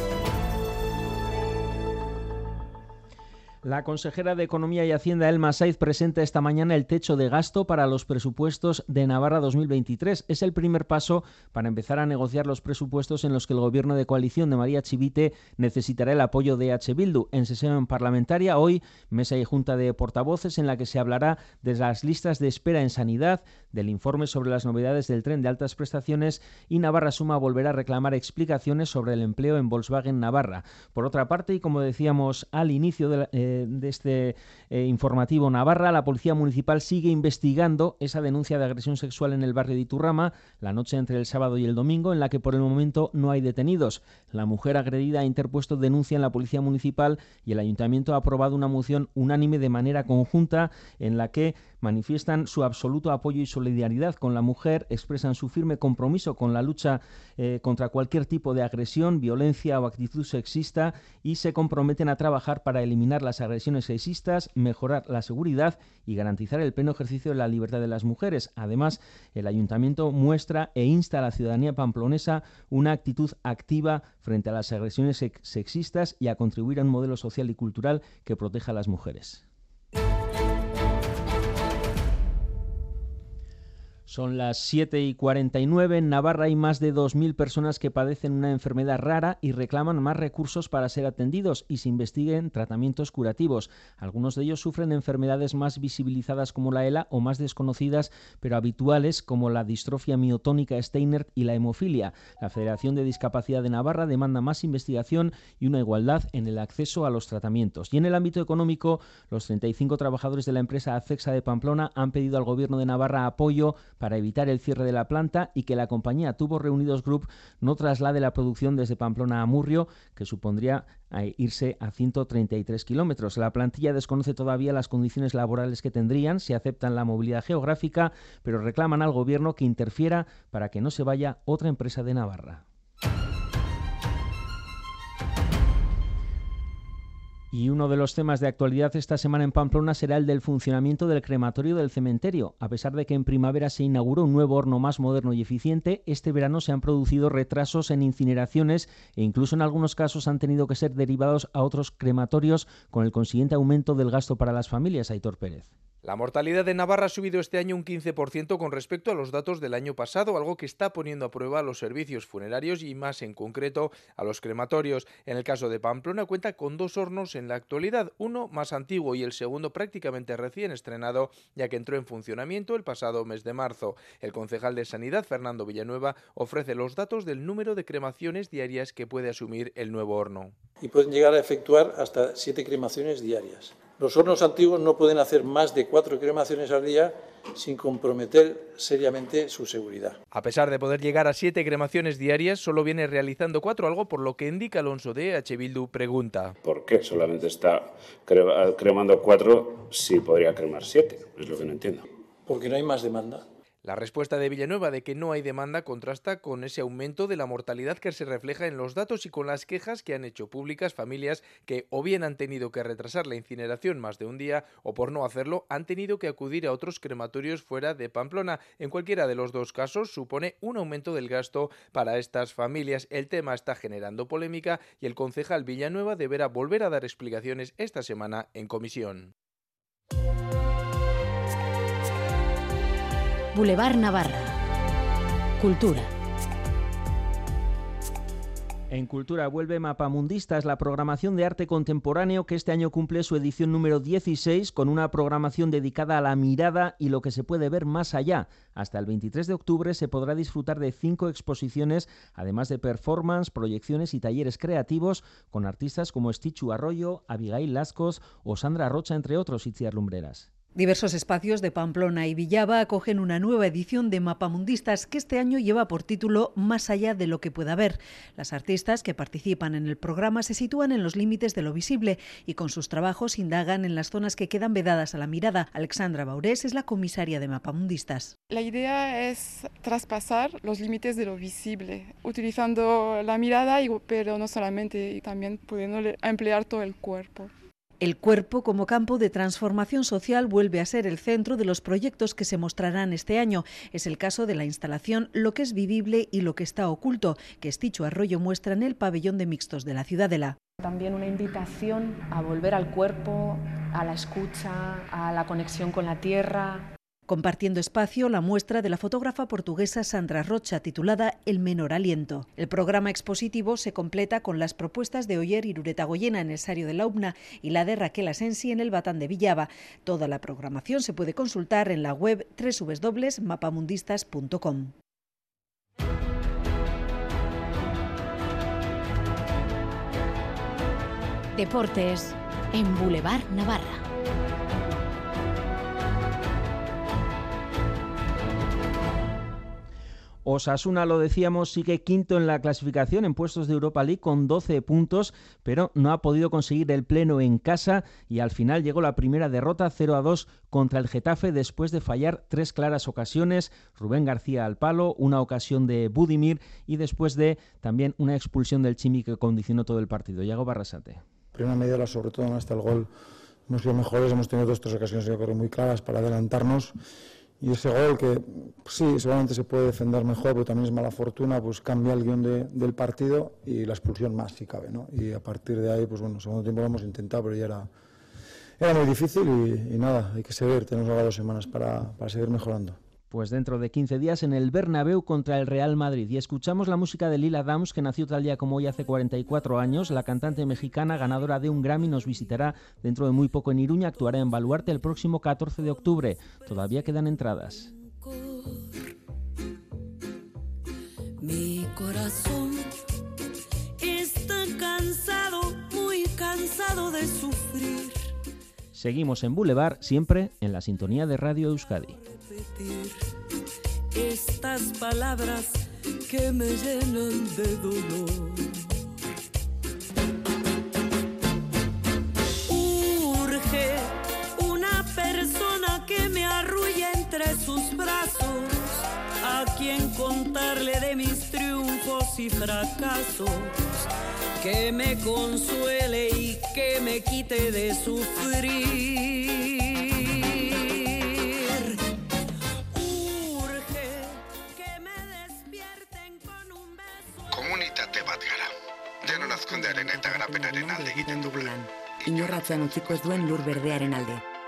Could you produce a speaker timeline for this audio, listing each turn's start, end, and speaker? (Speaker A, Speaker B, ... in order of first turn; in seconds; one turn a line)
Speaker A: 3.6-79.4
Speaker A: 84.1-132.6
Speaker A: 137.5-155.7
Speaker B: 156.0-180.5
Speaker C: 180.8-190.2
Speaker B: 190.3-196.6
Speaker D: 196.6-202.0
Speaker C: 202.5-203.4
Speaker B: 203.8-229.3
Speaker E: 233.5-234.6
Speaker E: 235.6-236.1
Speaker A: 238.9-260.5
Speaker F: 260.8-278.3
Speaker G: 278.5-287.5
Speaker F: 288.0-300.6
Speaker H: 300.8-306.9
Speaker F: 307.3-324.9
Speaker E: 331.6-334.0
Speaker A: 340.4-361.2
Speaker I: 361.5-363.1
Speaker I: 363.7-366.9
Speaker I: 367.6-377.9
Speaker I: 378.8-383.0
Speaker A: 383.3-397.9
Speaker J: 401.4-402.8
Speaker J: 404.0-408.1
Speaker A: 408.9-412.2
Speaker J: 412.5-413.1
Speaker J: 414.1-415.8
Speaker J: 416.3-418.7
Speaker J: 422.7-433.8
Speaker J: 434.6-439.7
Speaker J: 440.4-441.0
Speaker J: 442.9-447.7
Speaker K: 447.5-448.7
Speaker K: 449.3-451.6
Speaker L: 449.4-454.4